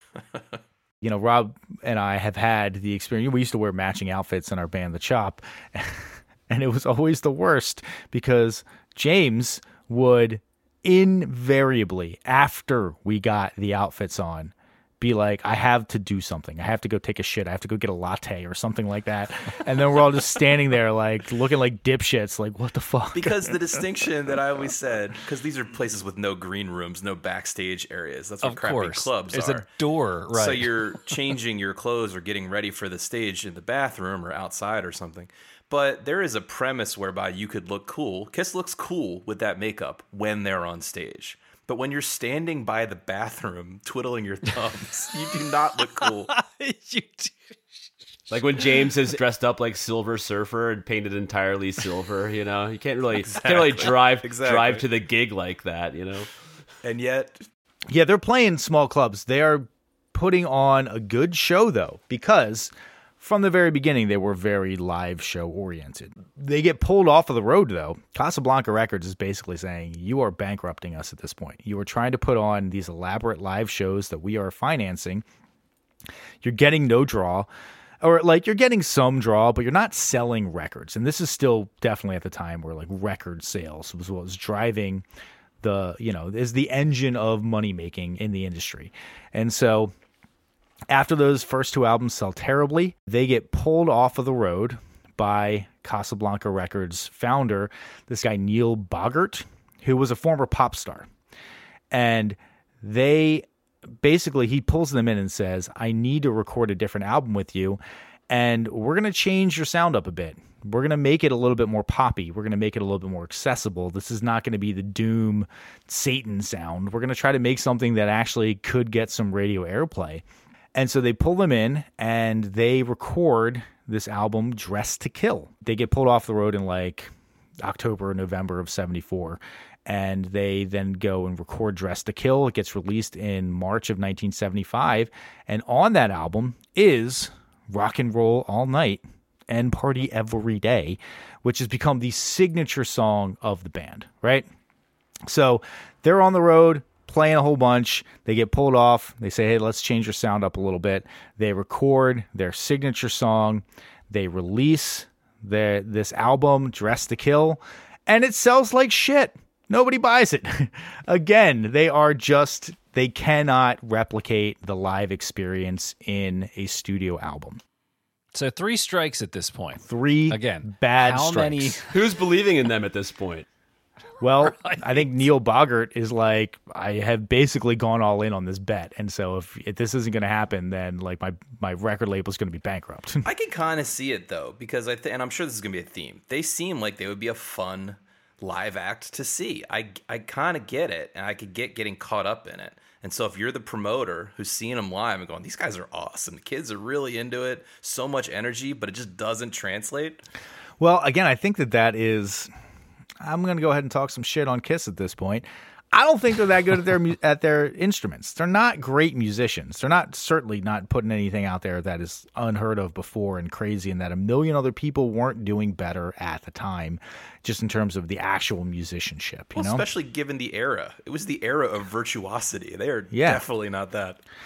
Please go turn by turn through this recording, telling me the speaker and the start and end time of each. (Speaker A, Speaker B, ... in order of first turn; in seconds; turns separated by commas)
Speaker A: 1.0-23.8, Speaker B: 23.1-29.6, Speaker C: 28.4-30.7, Speaker B: 30.3-46.3, Speaker C: 46.0-47.5, Speaker D: 48.3-56.3, Speaker B: 53.3-54.8, Speaker B: 56.8-57.4, Speaker A: 57.9-75.2, Speaker A: 76.4-77.5, Speaker A: 78.0-85.0, Speaker A: 85.6-89.9, Speaker A: 90.9-101.1, Speaker A: 101.9-144.5, Speaker A: 145.2-167.6, Speaker C: 168.3-171.8, Speaker A: 169.8-171.8, Speaker D: 171.9-173.4, Speaker A: 174.2-183.2, Speaker C: 174.4-175.0, Speaker B: 183.2-200.2, Speaker A: 200.8-202.5, Speaker A: 203.2-219.9, Speaker B: 219.6-224.2, Speaker A: 223.1-223.4